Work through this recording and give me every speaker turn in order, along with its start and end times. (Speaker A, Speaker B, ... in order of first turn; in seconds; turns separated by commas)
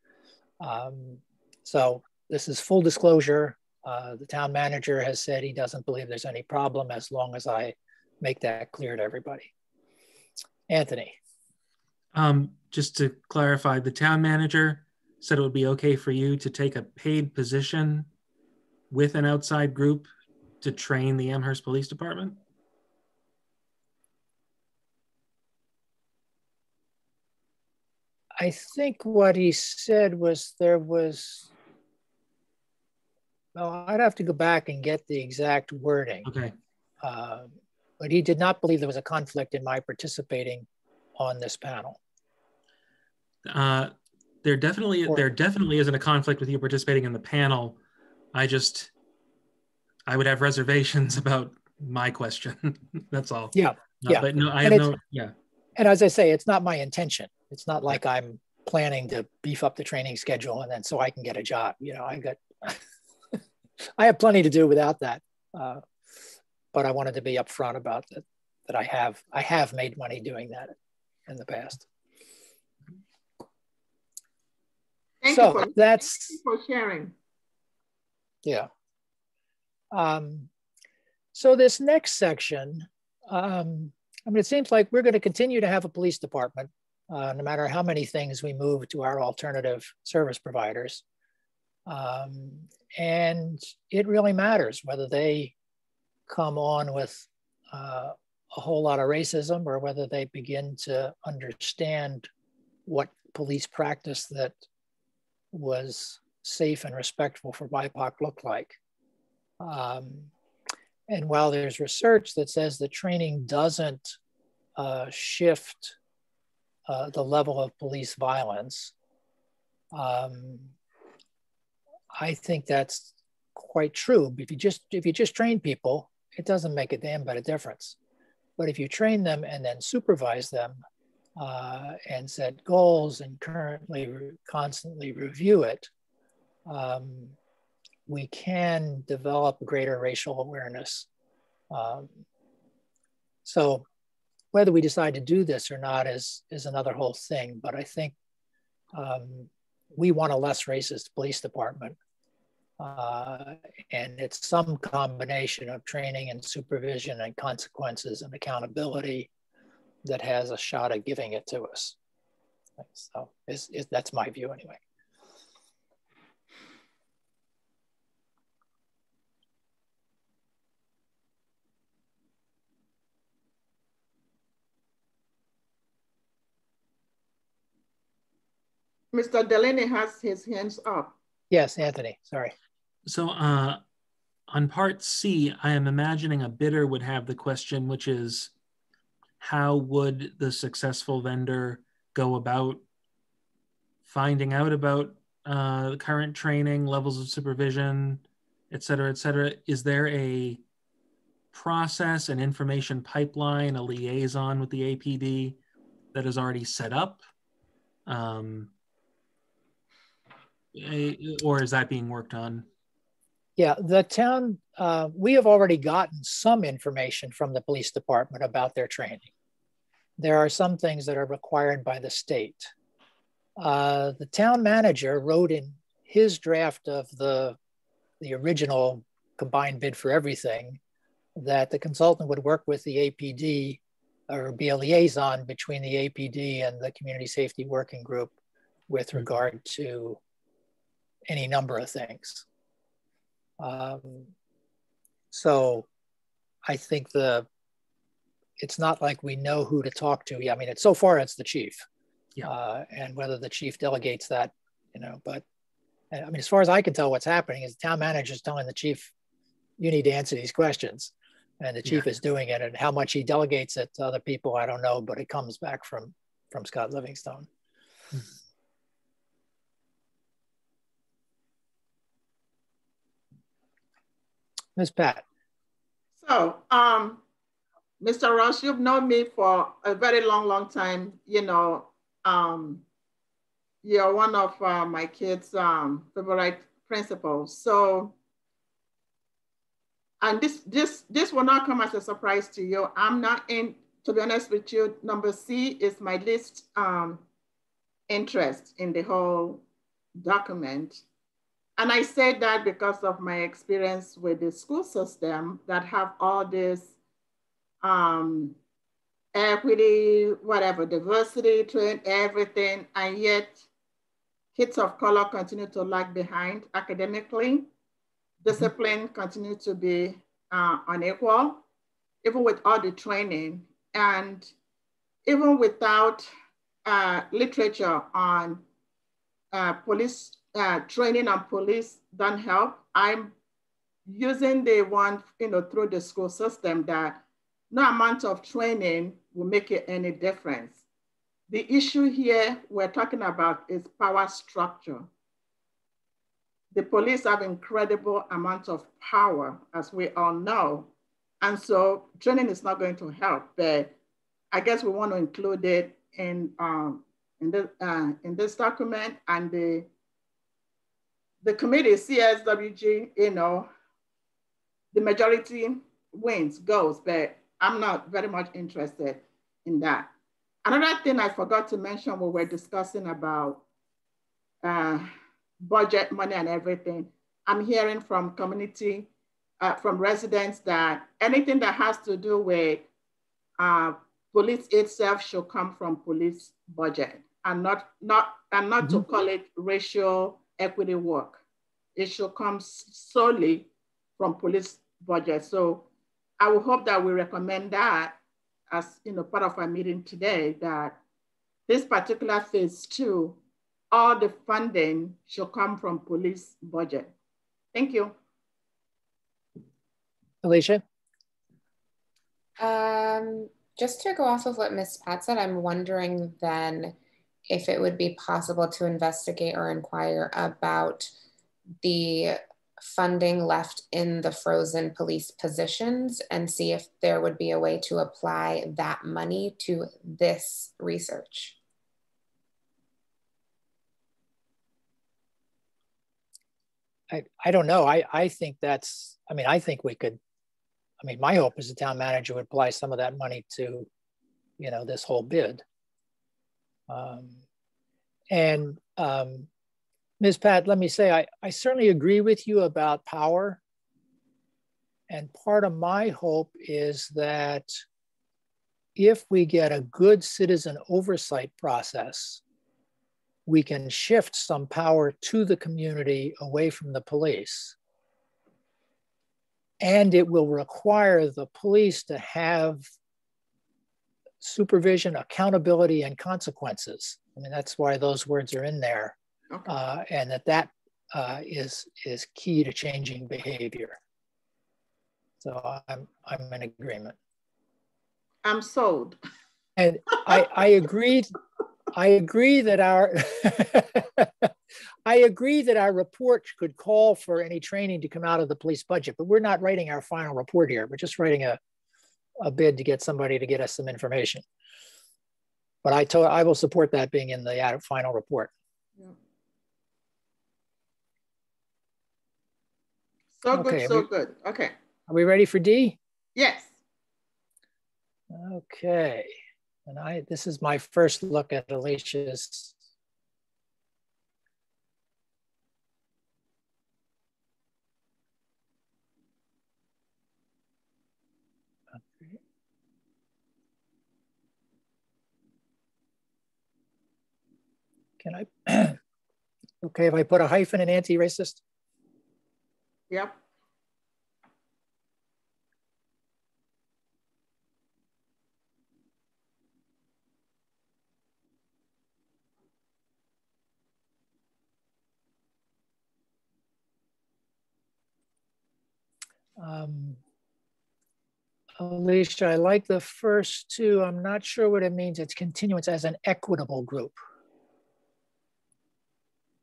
Speaker A: 0.6-9.5, Speaker A: 10.7-11.2, Speaker B: 12.1-18.1, Speaker B: 18.9-20.1, Speaker B: 20.6-22.4, Speaker A: 28.4-31.5, Speaker A: 33.5-36.3, Speaker B: 36.2-36.5, Speaker A: 37.0-42.0, Speaker B: 43.4-47.8, Speaker B: 48.3-48.9, Speaker B: 50.1-55.3, Speaker A: 53.5-54.9, Speaker A: 55.8-62.8, Speaker A: 64.0-65.8, Speaker A: 66.7-70.7, Speaker A: 71.3-71.8, Speaker C: 75.2-77.1, Speaker A: 75.3-76.4, Speaker A: 79.9-80.5, Speaker A: 81.3-91.0, Speaker A: 91.9-95.5, Speaker A: 96.3-102.3, Speaker A: 102.8-104.6, Speaker A: 105.5-108.8, Speaker A: 109.6-110.3, Speaker A: 111.1-114.2, Speaker A: 114.8-116.0, Speaker A: 116.9-118.9, Speaker A: 119.9-120.7, Speaker A: 122.2-128.0, Speaker A: 128.6-130.8, Speaker A: 131.4-135.9, Speaker A: 136.7-137.3, Speaker A: 138.1-141.1, Speaker A: 141.7-142.2, Speaker A: 143.4-143.8, Speaker A: 144.5-148.1, Speaker A: 148.9-152.0, Speaker A: 152.8-159.3, Speaker A: 160.0-161.9, Speaker A: 162.8-164.8, Speaker C: 179.1-181.2, Speaker A: 181.5-182.5, Speaker B: 183.1-183.8, Speaker B: 184.5-188.5, Speaker B: 189.4-192.8, Speaker B: 194.1-200.6, Speaker B: 201.5-205.6, Speaker B: 206.1-207.2, Speaker B: 208.1-208.7, Speaker B: 210.7-212.6, Speaker A: 213.6-219.3, Speaker A: 220.2-222.7, Speaker A: 223.6-227.6, Speaker A: 228.2-230.8, Speaker A: 231.3-238.3, Speaker A: 238.9-240.2, Speaker A: 241.3-242.4, Speaker A: 243.6-244.3, Speaker A: 245.3-245.9, Speaker A: 246.7-247.4, Speaker A: 248.6-251.8, Speaker A: 252.4-255.4, Speaker A: 256.1-259.1, Speaker A: 259.8-267.5, Speaker A: 274.8-275.2, Speaker C: 276.2-277.2, Speaker C: 278.0-282.8, Speaker C: 283.8-288.1, Speaker C: 290.2-297.2, Speaker C: 298.1-299.6, Speaker C: 300.1-301.0, Speaker C: 301.8-306.9, Speaker C: 307.8-308.6, Speaker C: 309.3-313.6, Speaker C: 314.5-317.7, Speaker C: 318.4-321.6, Speaker C: 322.2-324.5, Speaker C: 325.2-326.3, Speaker C: 326.8-328.6, Speaker C: 329.5-333.3, Speaker C: 334.1-340.8, Speaker C: 341.5-345.1, Speaker C: 346.7-353.9, Speaker C: 354.5-359.9, Speaker C: 361.4-363.7, Speaker C: 364.9-370.1, Speaker C: 370.6-373.6, Speaker C: 374.6-382.9, Speaker C: 383.6-391.4, Speaker C: 391.9-395.9, Speaker C: 396.4-398.2, Speaker C: 398.7-401.0, Speaker C: 401.7-403.4, Speaker C: 403.9-407.1, Speaker C: 407.7-408.1, Speaker A: 410.4-410.8, Speaker D: 412.6-416.9, Speaker D: 417.5-421.1, Speaker D: 421.8-431.6, Speaker A: 437.1-440.2, Speaker A: 441.0-443.9, Speaker A: 444.6-445.6, Speaker A: 446.9-447.4, Speaker A: 448.3-449.5, Speaker A: 450.2-453.6, Speaker A: 455.1-457.7, Speaker A: 458.9-462.4, Speaker A: 463.4-467.8, Speaker A: 469.8-472.8, Speaker A: 474.4-484.0, Speaker C: 479.5-479.8, Speaker A: 485.4-487.2, Speaker C: 488.4-489.2, Speaker A: 489.8-491.3, Speaker A: 491.9-494.5, Speaker A: 495.1-501.6, Speaker A: 502.4-504.4, Speaker A: 505.8-508.5, Speaker C: 513.4-514.7, Speaker A: 513.5-514.1, Speaker A: 515.1-516.0, Speaker C: 516.3-516.7, Speaker A: 518.3-519.3, Speaker A: 519.9-522.7, Speaker A: 532.0-532.4, Speaker A: 538.2-539.0, Speaker A: 539.8-541.6, Speaker C: 543.1-543.4, Speaker A: 559.6-560.2, Speaker A: 561.8-567.2